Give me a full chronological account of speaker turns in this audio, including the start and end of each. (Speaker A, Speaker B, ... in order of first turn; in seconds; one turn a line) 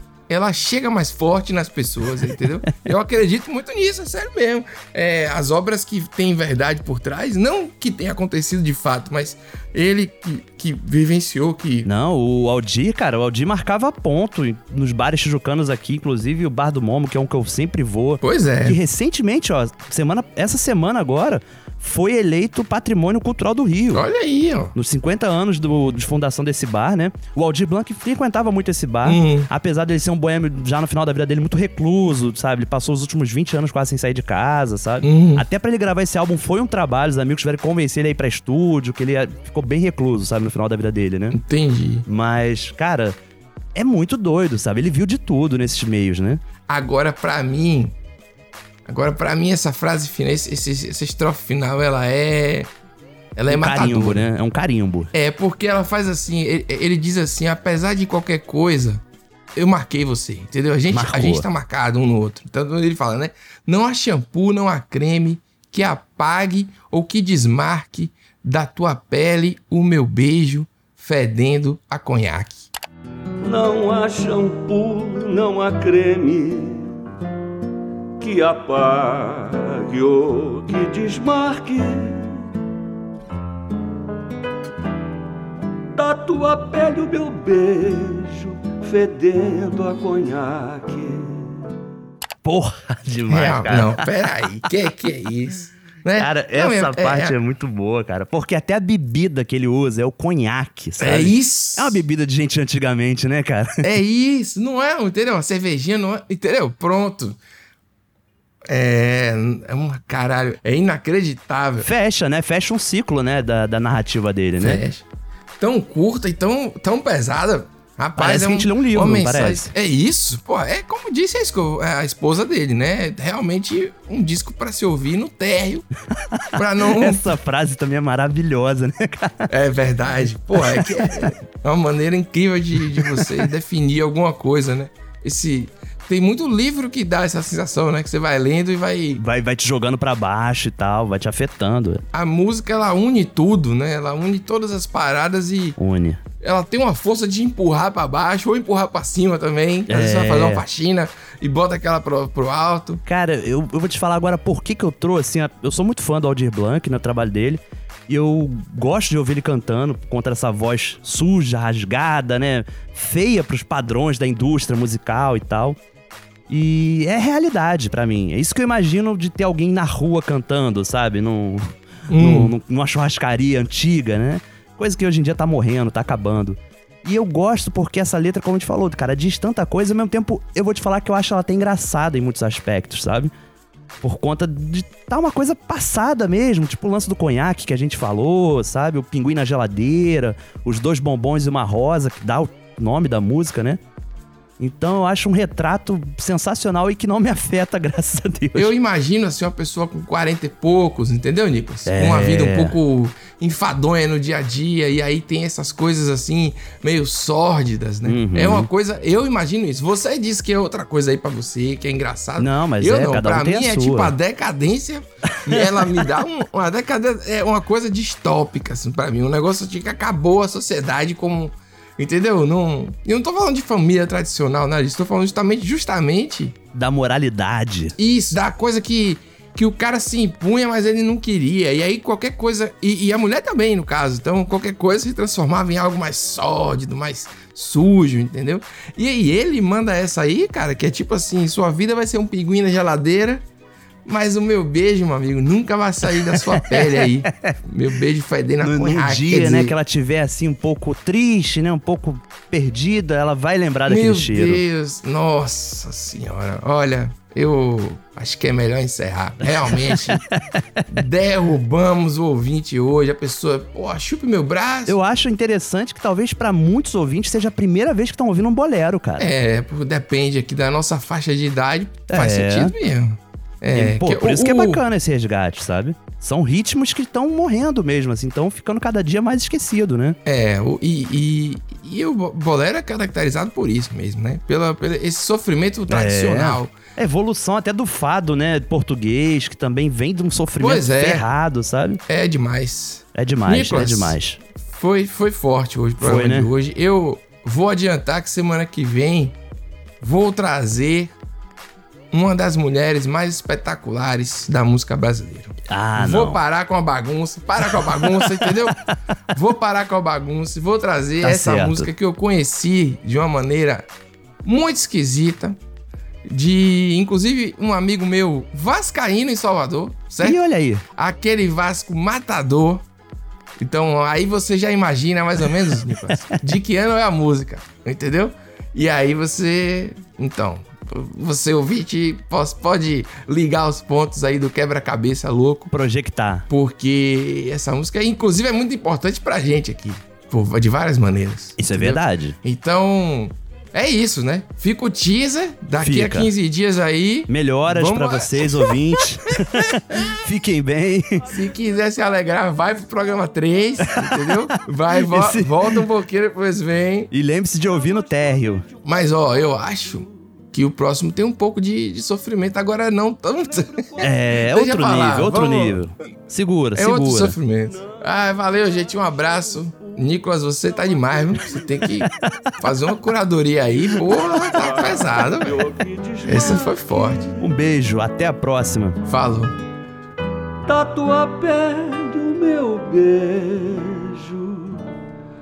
Speaker A: 0.3-11.9
Speaker B: 11.8-24.0
Speaker A: 18.2-18.8
Speaker A: 23.9-24.7
Speaker B: 24.7-41.4
Speaker A: 29.0-29.5
Speaker A: 35.0-35.4
Speaker A: 41.3-42.0
Speaker B: 42.0-43.1
Speaker B: 43.7-46.4
Speaker A: 46.7-47.9
Speaker A: 48.9-52.7
Speaker A: 53.4-54.3
Speaker B: 53.5-55.1
Speaker A: 55.1-59.0
Speaker A: 59.5-72.7
Speaker B: 60.9-61.5
Speaker C: 73.4-77.0
Speaker C: 78.2-82.5
Speaker C: 85.9-91.6
Speaker B: 92.4-94.6
Speaker A: 93.3-97.3
Speaker B: 96.2-103.8
Speaker A: 101.0-102.0
Speaker A: 103.8-107.4
Speaker A: 108.7-111.9
Speaker B: 111.8-114.8
Speaker A: 114.6-115.0
Speaker A: 115.6-125.8
Speaker B: 118.2-119.7
Speaker B: 126.3-129.5
Speaker A: 126.5-127.3
Speaker A: 129.5-139.2
Speaker B: 130.6-131.3
Speaker B: 132.9-133.3
Speaker B: 139.2-142.0
Speaker A: 142.1-145.8
Speaker B: 145.8-146.2
Speaker A: 146.4-153.0
Speaker B: 149.9-150.6
Speaker B: 153.0-165.8
Speaker B: 166.5-183.3
Speaker A: 172.1-172.5
Speaker B: 184.0-193.8
Speaker B: 194.6-198.7
Speaker A: 198.5-226.6
Speaker B: 201.8-202.8
Speaker B: 208.1-208.7
Speaker B: 212.4-214.1
Speaker B: 226.7-227.9
Speaker A: 228.0-243.4
Speaker A: 244.0-249.8
Speaker B: 246.2-247.5
Speaker B: 248.6-254.6
Speaker A: 253.9-260.2
Speaker B: 259.7-260.6
Speaker A: 260.9-264.9
Speaker B: 264.9-269.3
Speaker A: 269.2-274.8
Speaker B: 272.1-272.7
Speaker B: 273.7-280.2
Speaker A: 280.2-286.8
Speaker B: 285.9-292.0
Speaker A: 290.6-291.3
Speaker A: 292.1-299.3
Speaker B: 293.1-294.4
Speaker B: 296.0-296.5
Speaker A: 300.0-301.1
Speaker A: 302.1-308.8
Speaker B: 305.7-306.4
Speaker B: 307.7-308.9
Speaker A: 309.3-313.8
Speaker B: 311.2-311.9
Speaker A: 314.4-315.6
Speaker A: 316.2-320.4
Speaker B: 320.2-320.8
Speaker A: 320.9-322.8
Speaker A: 323.6-335.7
Speaker B: 326.1-326.4
Speaker B: 335.7-336.5
Speaker A: 336.5-350.1
Speaker B: 341.6-342.4
Speaker B: 345.8-346.3
Speaker B: 347.3-351.3
Speaker A: 351.3-357.1
Speaker B: 353.8-355.8
Speaker B: 357.1-358.6
Speaker C: 357.7-358.9
Speaker A: 358.8-365.8
Speaker C: 363.5-364.1
Speaker B: 364.0-367.4
Speaker A: 366.7-372.1
Speaker C: 367.7-370.0
Speaker C: 370.8-371.9
Speaker A: 372.6-375.7
Speaker C: 373.9-377.6
Speaker A: 376.2-377.3
Speaker B: 377.4-379.0
Speaker A: 379.1-379.5
Speaker C: 380.6-384.9